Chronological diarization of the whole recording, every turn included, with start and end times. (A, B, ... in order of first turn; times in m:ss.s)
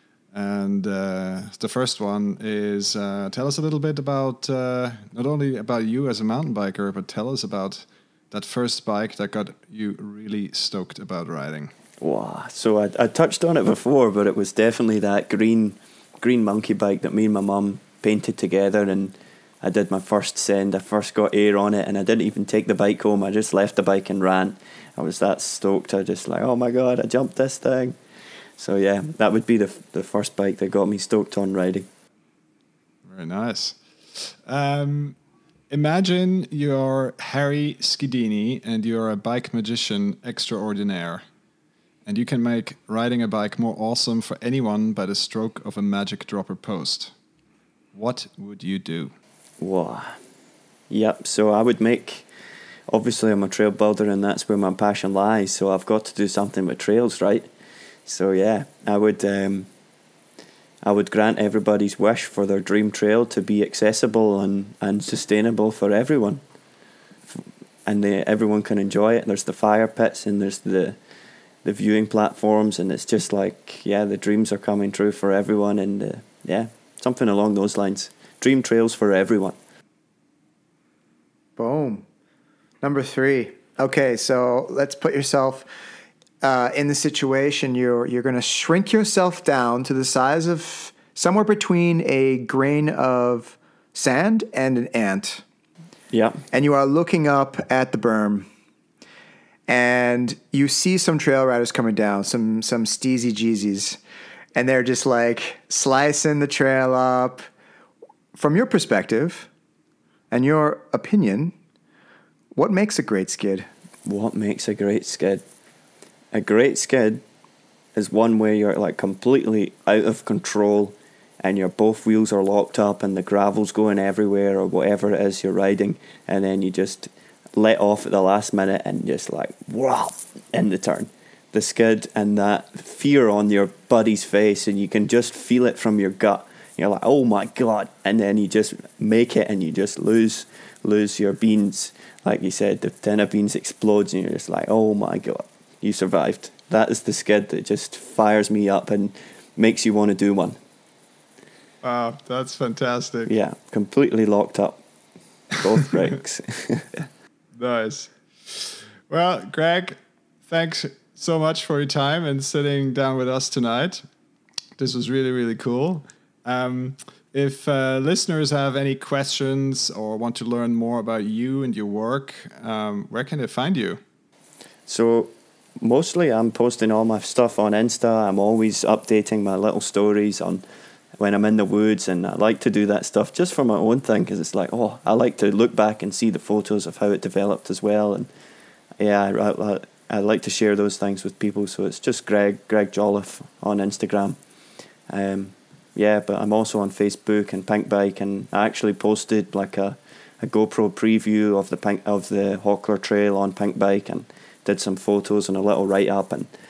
0:00.3-0:11.7 A
0:12.0-0:28.0 B
0:28.6-0:31.9 B
0:33.1-0:35.2 A
0:35.7-0:41.2 A
0:42.1-0:47.1 A
0:47.9-0:49.1 A
0:49.6-0:50.2 B
0:50.9-0:52.3 B
0:52.9-0:57.5 B
0:58.1-0:59.7 B
1:00.8-1:06.4 B
1:07.4-1:11.0 B
1:11.6-1:19.6 B
1:21.6-1:22.0 C
1:22.8-1:25.7 C
1:26.4-1:35.4 C
1:36.1-1:36.4 B
1:36.5-1:38.5 C
1:39.7-1:44.0 C
1:44.6-1:47.5 C
1:48.4-1:49.5 C
1:50.3-1:51.5 C
1:52.6-1:53.7 C
1:54.1-1:55.4 B
1:56.3-1:57.2 B
1:58.0-2:30.6 B
2:31.8-2:33.3 A
2:33.3-2:34.8 B
2:35.5-2:37.0 B
2:37.6-2:40.0 A
2:40.5-2:44.0 A
2:44.8-2:54.0 A
2:54.9-3:00.6 B
3:01.2-3:08.3 B
3:09.0-3:14.4 B
3:15.1-3:26.5 B